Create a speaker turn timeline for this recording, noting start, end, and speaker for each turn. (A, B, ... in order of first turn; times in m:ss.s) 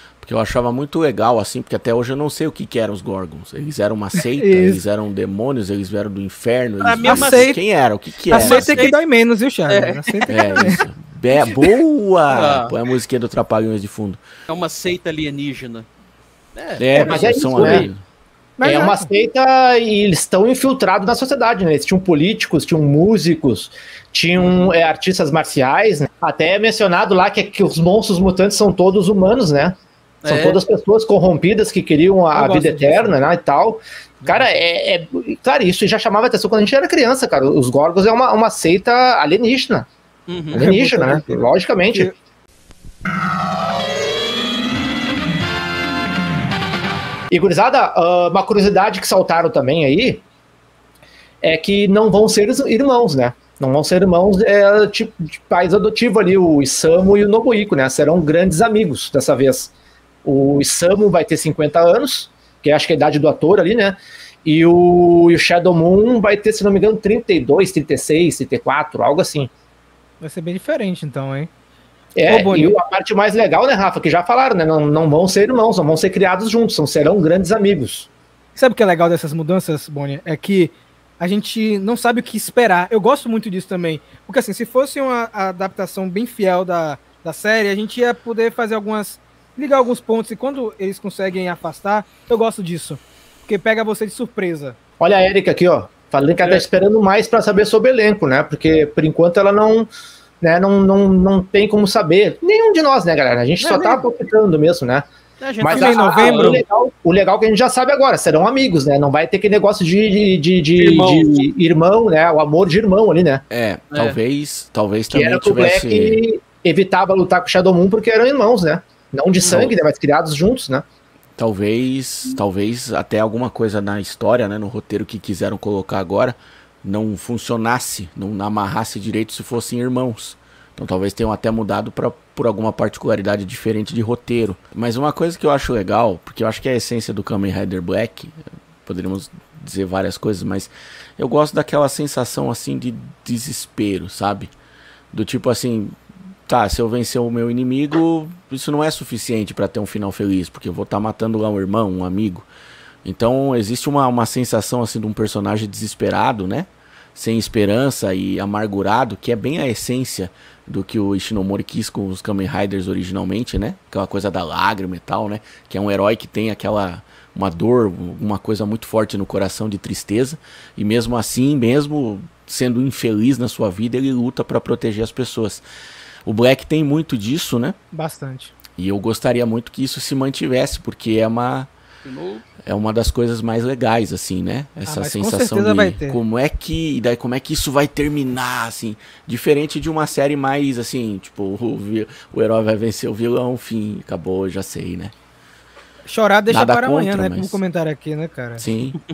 0:00.2-0:08.9 A
0:04.2-0:04.8 B
0:06.8-0:07.6 C
0:07.0-0:07.6 B
0:08.3-0:10.8 B
0:08.3-0:09.0 C
0:09.7-0:10.6 C
0:10.3-0:14.2 A
0:12.3-0:12.8 C
0:14.5-0:15.9 C
0:16.5-0:17.9 C
0:16.8-0:18.0 A
0:17.0-0:17.9 D
0:18.6-0:19.1 B
0:18.6-0:39.9 D
0:24.4-0:24.7 C
0:30.2-0:30.6 C
0:32.3-0:33.2 B
0:34.2-0:34.6 B
0:40.3-0:40.7 C
0:40.5-0:42.1 D
0:40.6-0:42.2 B
0:47.3-0:50.2 D
0:51.4-0:59.7 D
1:00.2-1:09.5 D
1:10.2-1:11.5 B
1:12.2-1:18.1 D
1:12.2-1:12.8 B
1:18.6-1:34.8 B
1:35.0-1:39.9 D
1:40.4-1:45.0 D
1:43.6-1:44.0 C
1:45.4-1:46.6 C
1:45.6-1:53.4 D
1:45.7-1:46.6 B
1:50.8-1:51.4 C
1:53.5-1:56.2 A
1:53.9-1:54.2 C
1:55.1-2:00.8 D
1:59.4-1:59.7 C
2:01.4-2:24.5 A
2:25.1-2:26.0 A
2:26.5-2:32.5 A
2:33.0-2:55.6 A
2:56.2-2:57.8 A
2:57.9-2:58.5 B
2:58.8-3:01.7 A
3:02.0-3:02.5 C
3:02.6-3:15.1 A
3:04.9-3:06.2 B
3:16.0-3:18.7 B
3:16.5-3:17.6 A
3:18.6-3:19.0 A